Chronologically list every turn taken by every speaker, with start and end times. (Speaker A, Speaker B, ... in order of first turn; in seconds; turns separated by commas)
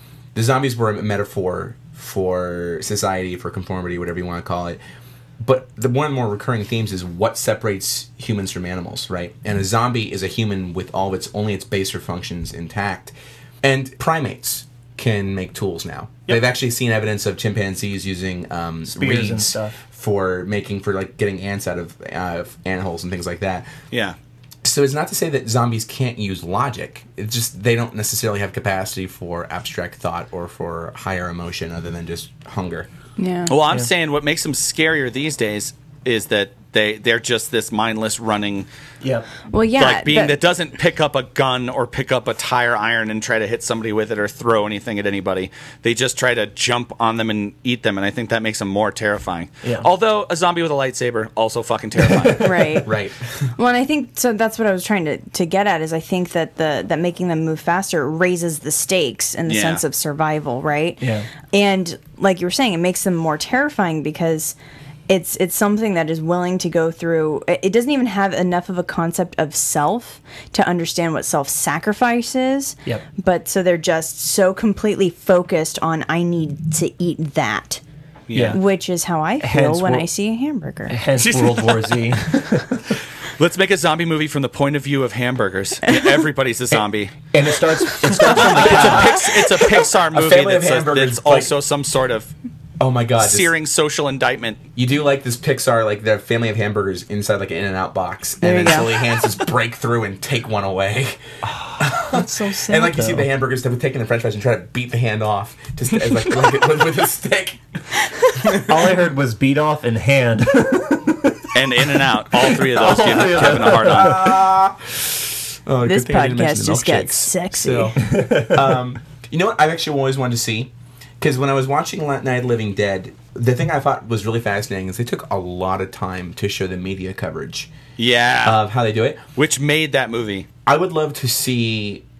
Speaker A: 0.3-4.8, Speaker A: 5.4-23.7, Speaker B: 18.9-19.8, Speaker A: 24.6-32.9, Speaker C: 33.2-33.5, Speaker D: 33.5-38.7, Speaker C: 39.5-40.4, Speaker D: 39.8-52.6, Speaker B: 52.1-52.8, Speaker C: 52.4-52.9, Speaker A: 52.8-53.5, Speaker C: 53.6-64.5, Speaker D: 59.5-59.8, Speaker B: 61.0-61.3, Speaker C: 65.1-77.8, Speaker D: 78.3-78.6, Speaker B: 78.3-78.6, Speaker C: 78.5-81.0, Speaker B: 79.4-80.0, Speaker B: 80.9-82.8, Speaker D: 81.2-82.1, Speaker D: 83.4-87.3, Speaker B: 87.3-89.4, Speaker D: 87.9-92.3, Speaker A: 88.5-91.5, Speaker A: 92.8-93.5, Speaker D: 93.2-94.6, Speaker A: 94.8-101.2, Speaker C: 98.4-98.9, Speaker B: 101.5-102.3, Speaker A: 101.8-107.6, Speaker C: 102.1-102.9, Speaker B: 102.8-103.3, Speaker A: 108.3-108.8, Speaker B: 108.6-111.5, Speaker D: 111.5-114.4, Speaker B: 112.4-114.5, Speaker A: 113.3-127.7, Speaker C: 115.8-118.0, Speaker B: 118.0-118.7, Speaker D: 128.0-128.6, Speaker A: 128.4-129.2, Speaker D: 129.3-130.5, Speaker A: 130.7-132.0